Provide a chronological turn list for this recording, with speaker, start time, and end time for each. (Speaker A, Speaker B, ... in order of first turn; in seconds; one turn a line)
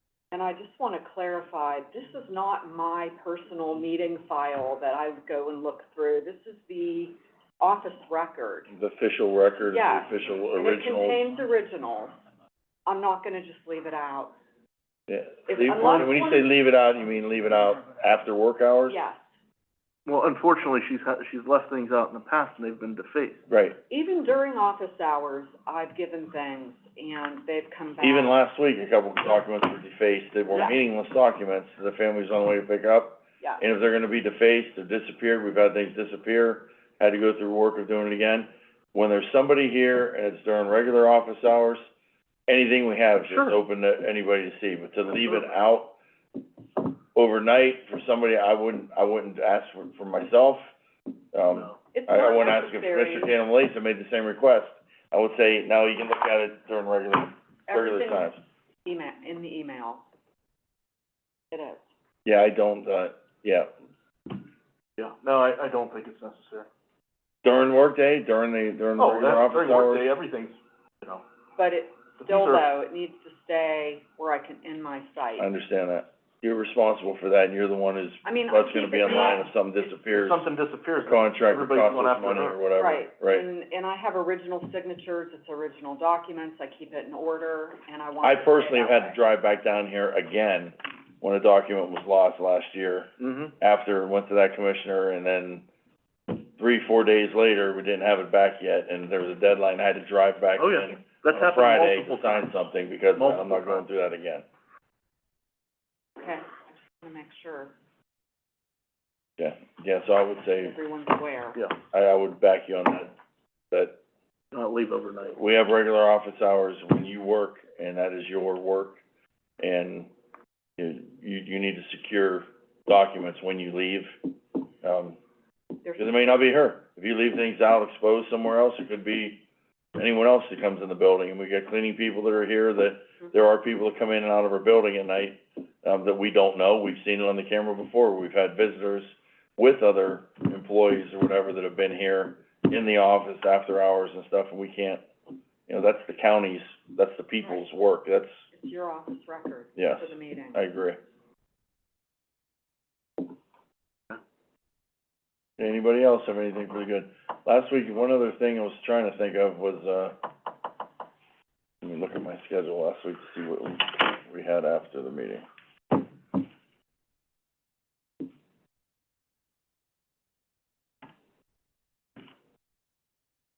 Speaker A: 0.3-8.7
Speaker B: 8.7-11.2
Speaker A: 9.7-12.2
Speaker A: 12.9-14.4
Speaker B: 15.1-19.0
Speaker A: 15.5-16.5
Speaker A: 18.9-19.3
Speaker C: 20.1-23.4
Speaker B: 23.5-23.8
Speaker A: 23.9-28.4
Speaker B: 28.0-41.8
Speaker B: 42.5-46.0
Speaker C: 43.2-43.6
Speaker B: 47.1-50.7
Speaker B: 51.3-58.4
Speaker A: 51.9-53.4
Speaker A: 57.7-58.3
Speaker A: 58.9-60.0
Speaker A: 61.5-61.9
Speaker B: 62.2-63.7
Speaker C: 65.0-66.7
Speaker B: 67.4-70.1
Speaker C: 69.0-71.2
Speaker A: 71.6-75.5
Speaker C: 72.2-72.7
Speaker B: 75.4-80.4
Speaker A: 78.2-79.5
Speaker C: 79.9-82.6
Speaker B: 81.1-83.5
Speaker A: 82.8-89.2
Speaker B: 88.2-95.7
Speaker C: 93.2-93.5
Speaker B: 96.3-104.5
Speaker C: 100.6-102.5
Speaker C: 103.2-103.8
Speaker A: 106.2-107.7
Speaker B: 109.4-110.8
Speaker A: 110.6-111.6
Speaker B: 111.9-113.2
Speaker B: 113.7-114.0
Speaker C: 114.5-115.4
Speaker B: 115.3-119.0
Speaker B: 119.6-120.1
Speaker B: 120.8-124.1
Speaker B: 124.8-125.2
Speaker A: 125.8-126.5
Speaker B: 126.0-129.4
Speaker B: 130.0-145.1
Speaker B: 145.7-148.4
Speaker A: 148.5-150.6
Speaker B: 149.8-151.0
Speaker B: 155.6-160.2
Speaker B: 161.8-165.4